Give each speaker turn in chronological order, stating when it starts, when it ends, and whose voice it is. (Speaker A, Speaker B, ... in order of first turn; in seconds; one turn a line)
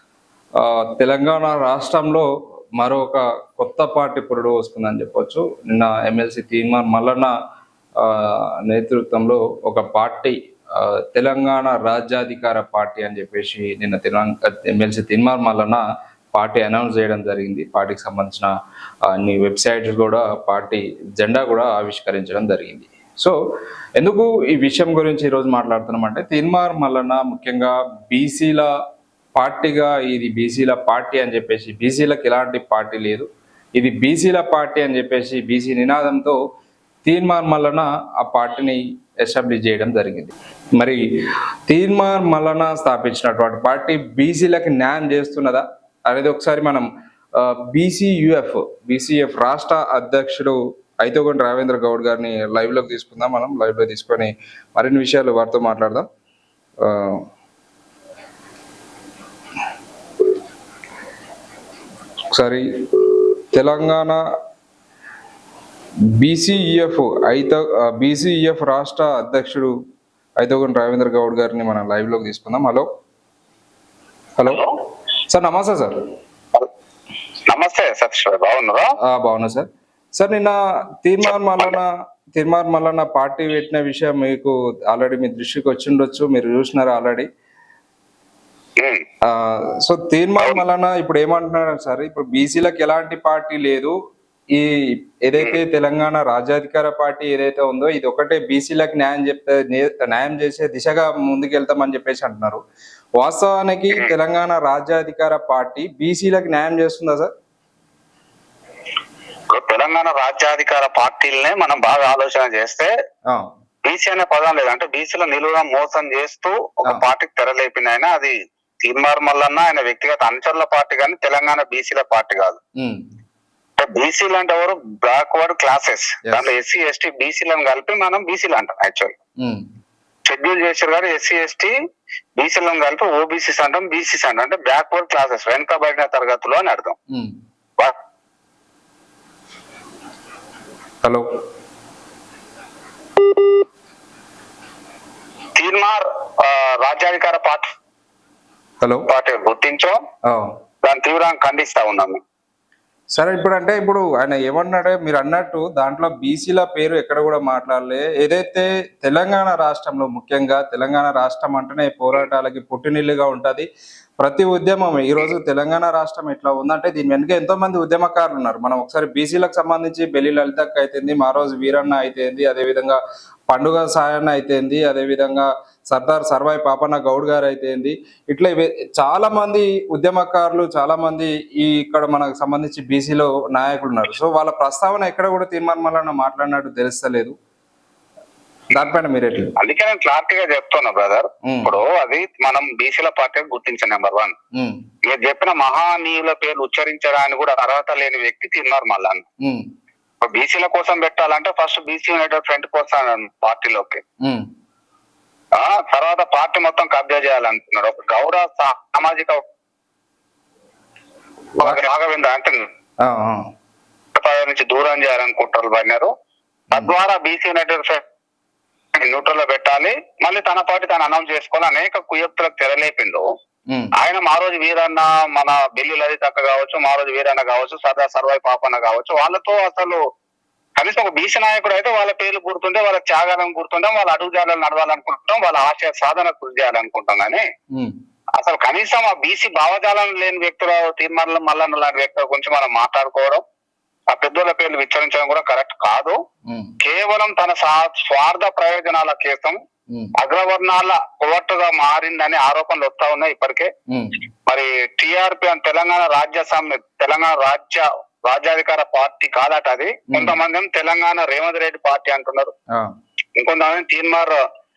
Speaker A: 0.6-7.3
Speaker A: 8.0-15.8
Speaker A: 16.3-18.5
Speaker A: 19.0-23.4
Speaker A: 24.0-28.7
Speaker A: 29.4-36.4
Speaker A: 37.0-41.0
Speaker A: 41.7-56.1
Speaker A: 56.8-57.2
Speaker A: 62.3-64.2
Speaker A: 66.1-69.7
Speaker A: 70.4-72.9
Speaker A: 74.4-74.6
Speaker A: 75.3-76.0
Speaker B: 77.5-78.9
Speaker A: 79.0-87.3
Speaker B: 81.2-81.8
Speaker B: 88.8-89.0
Speaker A: 89.2-94.0
Speaker A: 94.5-102.6
Speaker A: 103.2-107.3
Speaker B: 109.5-112.9
Speaker B: 113.9-122.6
Speaker B: 123.8-129.2
Speaker B: 130.3-131.7
Speaker B: 132.4-136.9
Speaker B: 145.6-147.7
Speaker B: 149.1-150.0
Speaker A: 150.2-150.5
Speaker B: 150.8-152.2
Speaker A: 153.1-163.7
Speaker A: 164.2-187.3
Speaker A: 188.7-189.5
Speaker B: 189.6-194.3
Speaker A: 191.5-191.8
Speaker B: 195.1-199.2
Speaker B: 200.2-204.0
Speaker B: 205.6-209.4
Speaker B: 211.6-212.7
Speaker A: 213.0-213.4
Speaker B: 214.2-216.1
Speaker B: 216.7-218.0
Speaker B: 218.9-223.2
Speaker B: 224.0-230.0
Speaker B: 230.8-237.4
Speaker B: 238.4-243.4
Speaker B: 244.1-246.2
Speaker A: 246.5-246.7
Speaker B: 246.8-249.6
Speaker B: 250.2-253.7
Speaker A: 253.9-254.2
Speaker B: 254.5-262.5
Speaker A: 260.1-260.4
Speaker B: 263.4-264.4